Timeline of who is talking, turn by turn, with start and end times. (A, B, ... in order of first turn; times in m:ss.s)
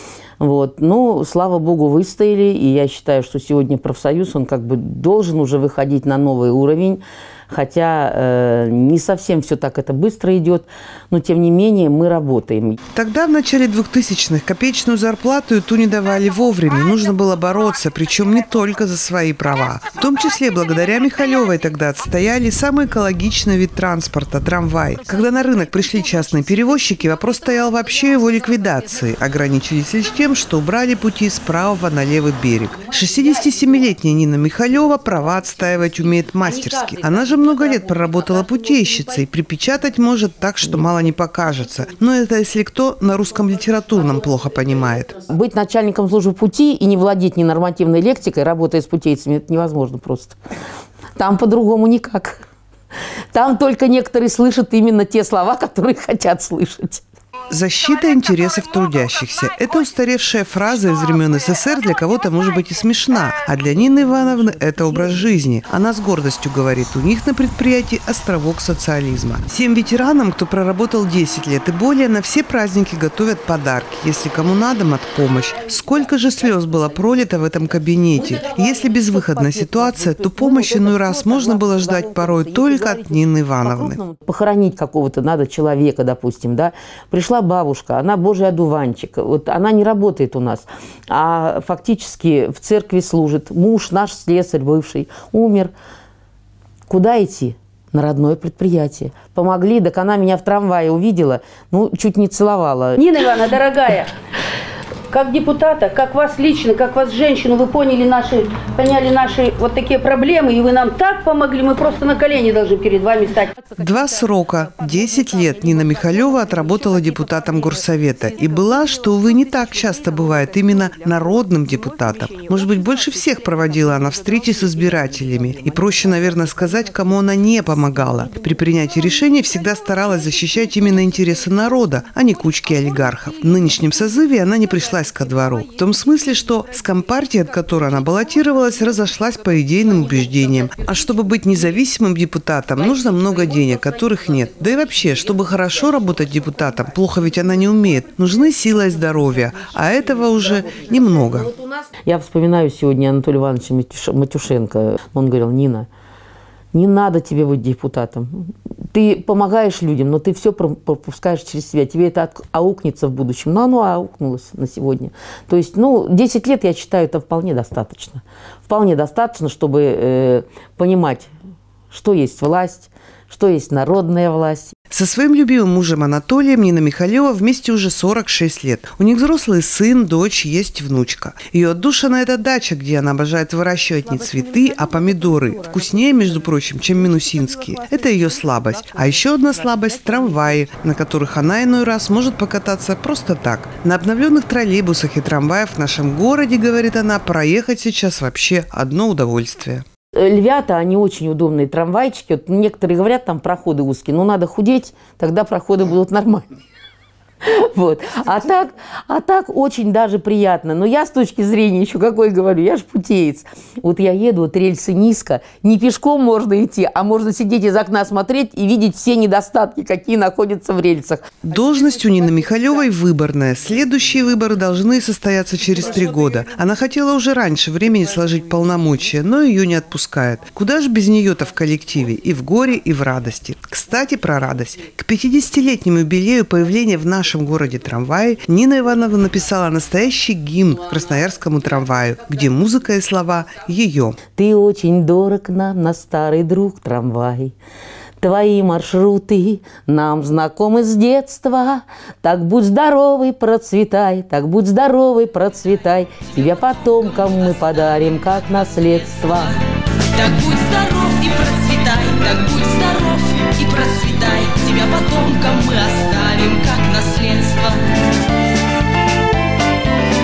0:00.4-0:12.8 A
0:12.9-0:45.2 B
0:36.3-0:38.6 A
0:45.3-0:50.4 A
0:51.2-0:52.4 A
0:53.3-0:57.0 A
0:57.5-1:24.0 B
1:19.1-1:35.7 A
1:36.9-1:43.3 A
1:43.1-1:44.1 C
1:45.1-1:53.7 C
1:53.7-2:31.5 B
2:31.6-2:35.9 A
2:36.7-2:51.3 A
2:51.9-2:54.7 A
2:54.9-3:19.8 B
3:20.2-3:26.5 A
3:27.4-3:41.3 A
3:41.4-4:04.2 B
4:04.4-4:07.6 A
4:08.2-4:19.6 A
4:20.0-4:27.9 D